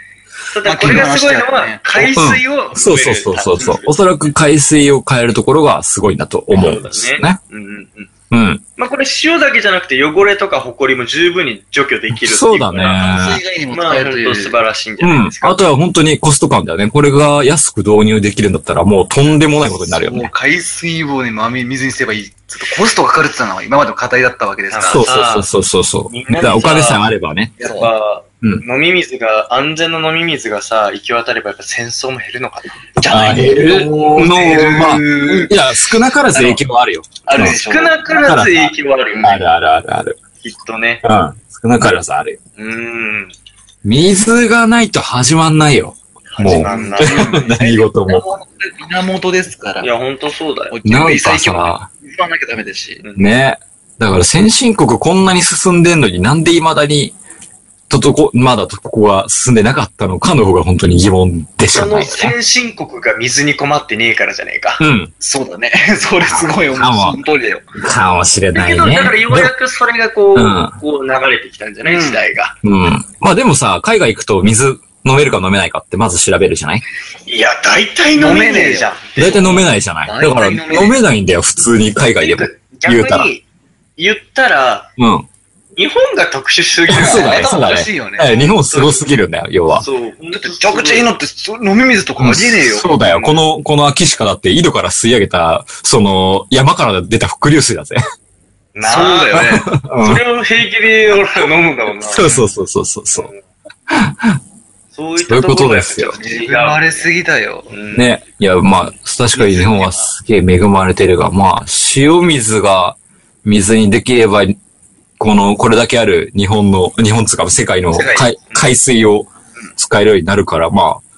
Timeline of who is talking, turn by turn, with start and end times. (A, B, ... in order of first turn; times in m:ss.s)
0:00.5-0:03.9 A
0:00.6-0:02.2 B
0:02.2-0:07.4 C
0:06.5-0:08.1 A
0:08.3-0:08.6 C
0:08.8-0:13.0 A
0:12.1-0:13.4 C
0:13.0-0:14.6 B
0:13.7-0:15.6 A
0:15.0-0:20.3 C
0:19.7-0:25.1 B
0:24.7-0:25.5 A
0:24.8-0:27.5 C
0:26.1-0:27.0 A
0:27.6-0:27.9 B
0:27.6-0:33.3 A
0:33.0-0:35.6 B
0:33.0-0:37.6 C
0:36.3-0:36.6 B
0:37.2-0:38.3 B
0:37.4-0:39.4 A
0:38.2-0:38.7 C
0:39.2-0:40.2 C
0:40.4-0:41.0 A
0:41.0-0:42.4 C
0:42.6-0:43.3 A
0:43.8-0:48.2 C
0:46.3-0:47.8 A
0:46.5-0:49.9 B
0:49.8-0:50.8 A
0:50.7-0:53.0 B
0:50.8-0:51.9 C
0:53.0-0:53.3 A
0:53.2-0:57.1 C
0:57.9-1:02.3 C
1:01.7-1:04.8 A
1:04.8-1:05.1 C
1:05.2-1:07.7 B
1:06.6-1:07.2 C
1:07.8-1:09.5 C
1:08.5-1:12.6 A
1:10.3-1:10.7 C
1:11.8-1:12.2 B
1:12.6-1:16.8 C
1:17.2-1:19.7 A
1:18.2-1:19.0 B
1:19.2-1:23.3 C
1:20.0-1:21.0 B
1:22.2-1:23.4 A
1:24.0-1:24.9 A
1:25.0-1:25.3 C
1:25.8-1:27.5 A
1:26.9-1:29.8 C
1:26.9-1:28.4 B
1:28.2-1:29.0 A
1:29.7-1:31.1 A
1:30.3-1:33.0 B
1:32.2-1:38.0 C
1:33.0-1:33.4 A
1:38.7-1:42.4 A
1:38.8-1:39.7 B
1:39.3-1:40.2 C
1:42.0-1:43.3 C
1:43.9-1:44.4 C
1:44.9-1:47.1 A
1:45.2-1:46.2 C
1:46.2-1:47.7 B
1:47.7-1:48.0 A
1:47.9-1:54.6 C
1:49.3-1:50.1 A
1:55.2-2:01.0 C
1:57.9-1:58.7 A